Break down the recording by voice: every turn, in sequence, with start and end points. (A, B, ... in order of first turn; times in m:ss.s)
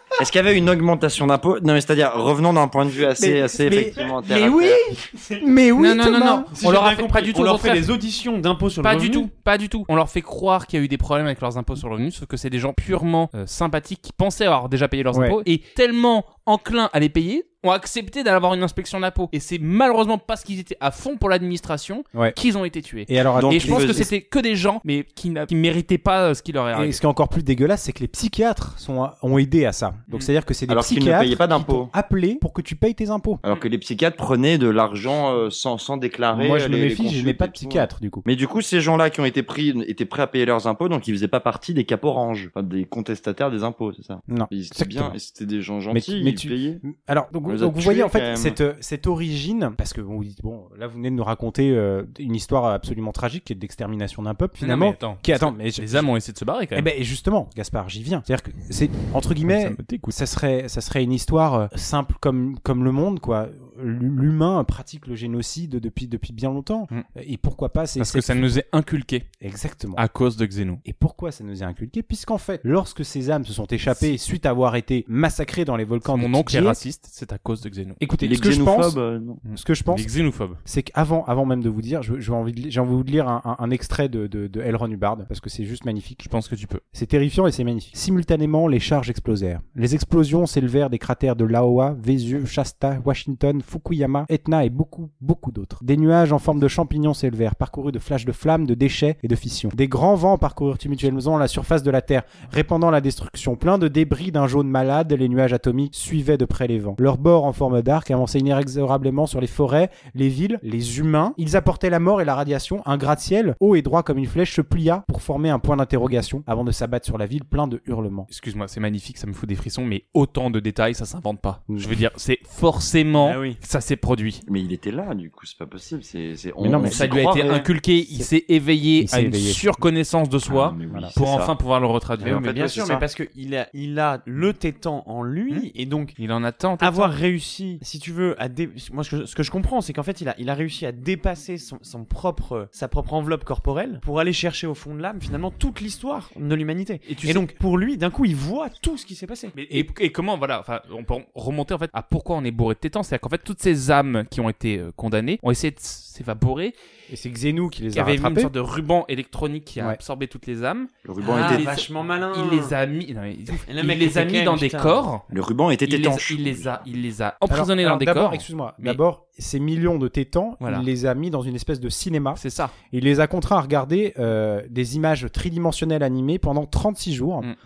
0:00.2-0:04.8 A
0:03.2-0:06.5 B
0:05.8-0:07.9 C
0:06.6-0:09.3 D
0:08.8-0:27.0 C
0:15.1-0:15.4 B
0:23.1-0:24.1 B
0:23.4-0:24.1 A
0:26.7-0:33.4 B
0:30.7-0:31.9 A
0:33.4-0:46.8 A
0:36.3-0:38.2 B
0:44.3-0:45.2 B
0:45.9-0:56.0 B
0:47.5-0:48.6 A
0:54.6-0:56.9 C
0:56.7-1:08.5 B
0:59.5-1:00.1 C
1:08.0-1:09.3 C
1:09.4-1:10.0 B
1:10.0-1:10.8 C
1:10.8-1:16.8 B
1:16.1-1:18.0 C
1:18.0-1:19.0 B
1:18.2-1:19.4 A
1:19.5-1:20.6 C
1:19.5-1:20.1 B
1:20.6-1:26.3 B
1:26.2-1:26.8 C
1:26.9-1:58.3 B
1:58.3-2:04.4 C
2:03.2-2:03.6 D
2:04.5-2:07.7 A
2:06.6-2:07.1 B
2:06.8-2:12.4 C
2:09.0-2:09.8 B
2:10.5-2:11.5 A
2:10.9-2:11.1 B
2:12.2-2:13.1 A
2:12.2-2:16.2 D
2:15.5-2:17.2 C
2:16.8-2:29.5 D
2:27.1-2:27.5 C
2:29.5-2:36.8 C
2:37.1-2:38.5 B
2:37.9-2:45.2 C
2:41.0-2:41.8 A
2:41.2-2:42.7 D
2:43.7-2:45.0 D
2:45.3-2:46.8 A
2:45.9-2:49.0 C
2:47.5-2:57.5 B
2:50.6-2:50.9 C
2:52.4-2:52.8 C